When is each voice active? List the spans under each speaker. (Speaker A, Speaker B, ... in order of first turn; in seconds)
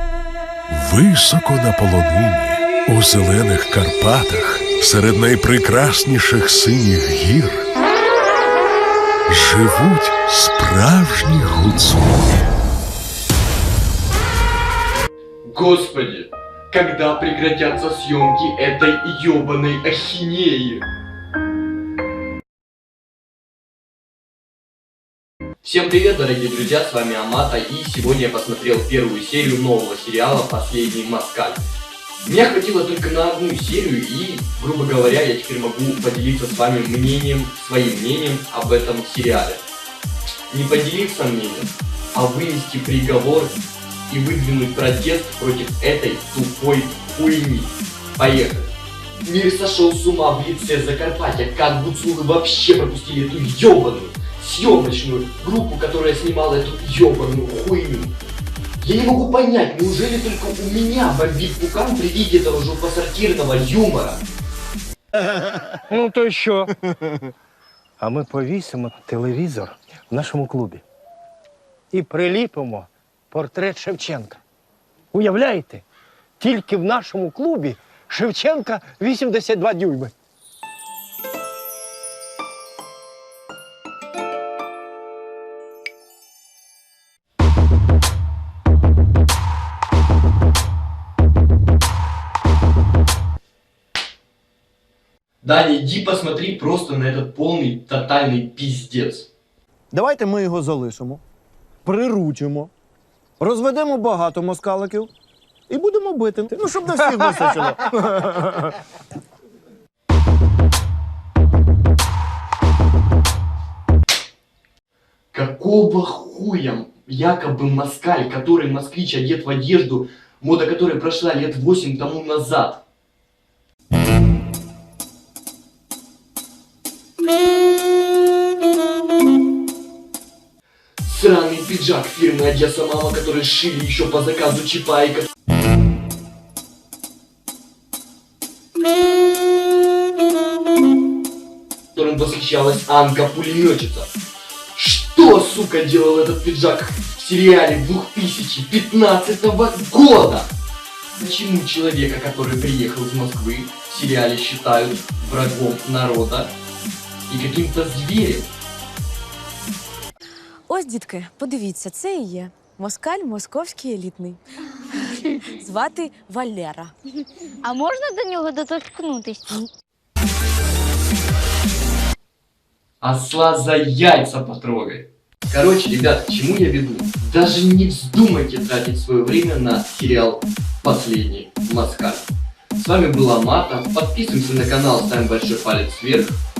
Speaker A: 0.7-7.6, 9.3-12.2
Speaker B: 15.4-20.8, 25.6-31.6, 32.2-39.6, 40.5-43.5, 44.1-48.7, 49.2-58.2, 58.8-64.2, 95.4-99.3, 115.3-122.8, 131.0-135.3, 141.9-144.1, 144.7-150.5, 151.2-156.6, 157.3-158.5, 173.0-186.4
Speaker C: 65.9-66.7, 68.0-70.8, 71.9-74.4, 75.1-75.8, 76.4-80.1
Speaker D: 99.9-101.2, 101.8-102.7, 103.4-105.1, 105.7-108.7
Speaker E: 160.7-164.4, 165.5-166.9
Speaker F: 165.0-165.4, 167.6-169.6